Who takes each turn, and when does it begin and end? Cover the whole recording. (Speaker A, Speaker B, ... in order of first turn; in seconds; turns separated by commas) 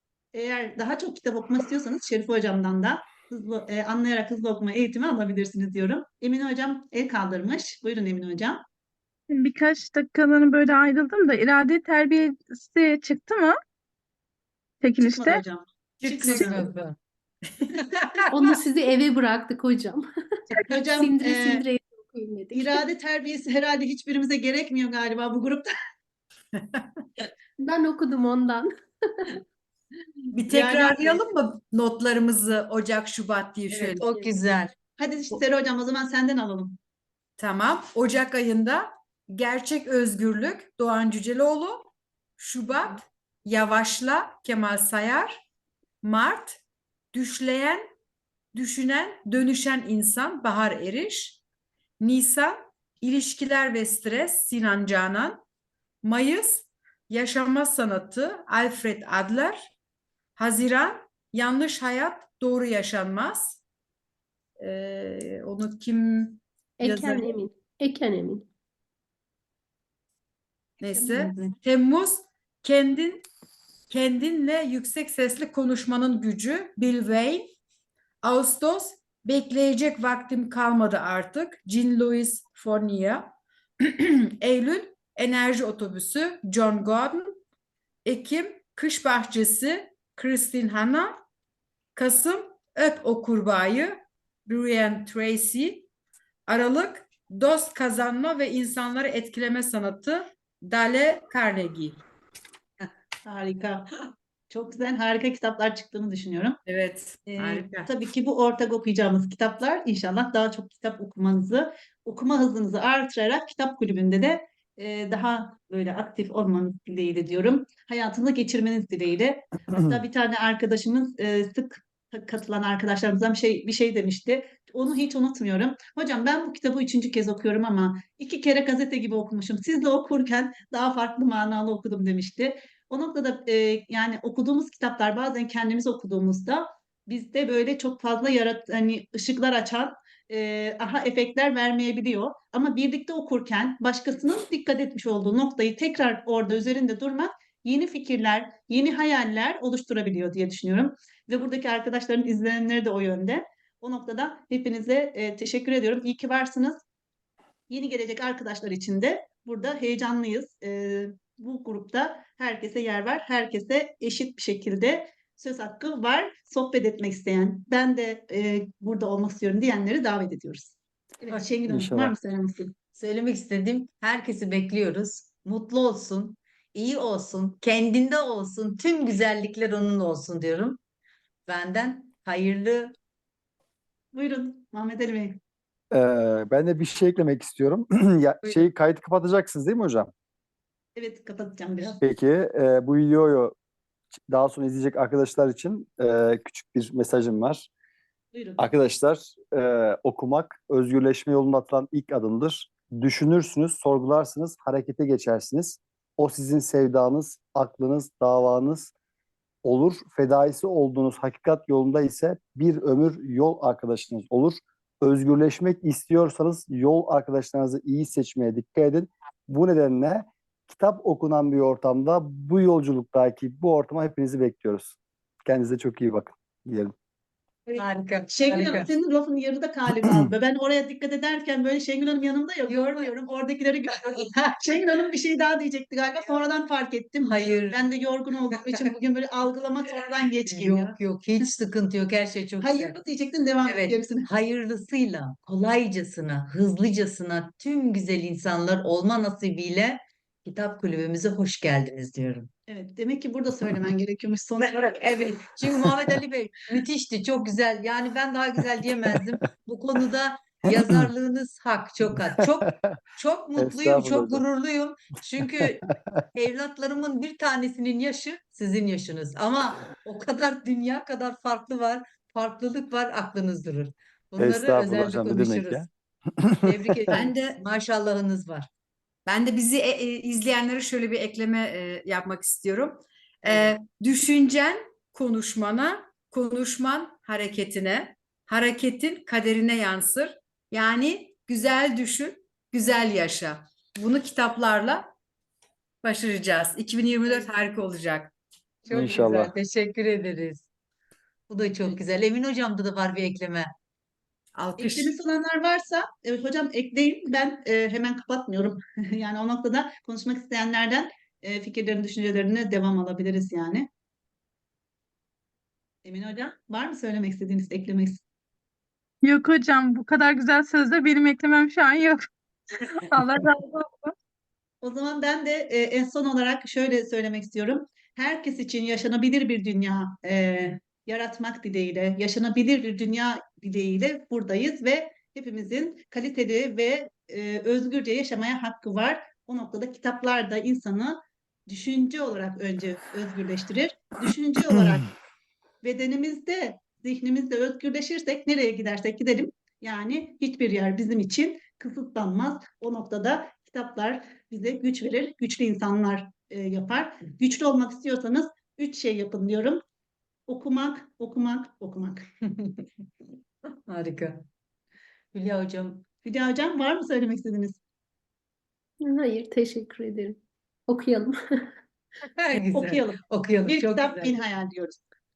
Speaker A: 0.3-8.6, Speaker B: 9.3-13.6, Speaker B: 14.8-15.4, Speaker A: 15.0-16.7, Speaker C: 16.0-17.0, Speaker C: 17.7-18.3, Speaker D: 18.3-20.1, Speaker A: 20.7-21.6, Speaker D: 21.0-22.8, Speaker A: 22.5-25.7, Speaker D: 27.6-29.4, Speaker E: 30.3-34.0, Speaker A: 30.5-31.3, Speaker C: 33.7-34.7, Speaker A: 35.0-36.8, Speaker E: 37.4-45.4, Speaker E: 46.0-46.6, Speaker E: 47.1-47.8, Speaker E: 48.5-51.4, Speaker E: 52.0-55.4, Speaker E: 56.0-59.7, Speaker E: 60.4-63.6, Speaker E: 64.6-66.4, Speaker D: 66.8-68.5, Speaker A: 66.8-67.4, Speaker E: 70.8-73.3, Speaker A: 70.8-71.5, Speaker E: 73.9-77.5, Speaker E: 78.2-87.4, Speaker E: 88.0-91.2, Speaker E: 91.9-95.9, Speaker E: 96.5-102.0, Speaker A: 103.2-103.9, Speaker A: 104.5-106.6, Speaker E: 106.7-107.9, Speaker A: 107.3-156.8, Speaker A: 157.7-172.7, Speaker F: 171.7-172.1, Speaker C: 172.9-180.8, Speaker C: 181.5-182.9, Speaker A: 184.1-185.4, Speaker F: 185.9-190.1, Speaker A: 190.9-192.0, Speaker F: 192.0-193.5, Speaker F: 194.3-197.7, Speaker A: 198.3-198.6, Speaker F: 198.6-208.9, Speaker F: 209.6-224.9, Speaker F: 225.4-226.9, Speaker C: 227.7-228.9, Speaker A: 228.3-241.0, Speaker C: 232.7-233.1, Speaker C: 237.2-237.8, Speaker C: 240.5-242.9, Speaker A: 242.6-244.3, Speaker C: 243.7-252.5, Speaker A: 252.7-255.0, Speaker C: 254.6-265.8, Speaker F: 260.8-261.1, Speaker F: 262.2-262.9, Speaker F: 263.6-264.4, Speaker F: 265.4-266.2, Speaker C: 266.3-275.9, Speaker F: 274.4-277.1, Speaker C: 276.6-278.7, Speaker E: 277.1-277.6, Speaker E: 279.2-295.1, Speaker C: 283.4-283.7, Speaker E: 296.0-298.3, Speaker C: 298.9-300.6, Speaker F: 298.9-299.5, Speaker C: 301.5-303.7, Speaker E: 304.5-305.1, Speaker A: 304.8-313.9, Speaker A: 316.0-318.2, Speaker B: 319.2-322.2, Speaker B: 322.8-324.1, Speaker A: 324.8-345.1, Speaker A: 345.8-359.8, Speaker A: 360.5-362.2, Speaker C: 362.5-362.9, Speaker C: 363.9-364.4, Speaker C: 365.3-366.1, Speaker A: 366.2-367.8, Speaker D: 369.0-371.7, Speaker C: 372.4-374.4, Speaker A: 372.7-375.0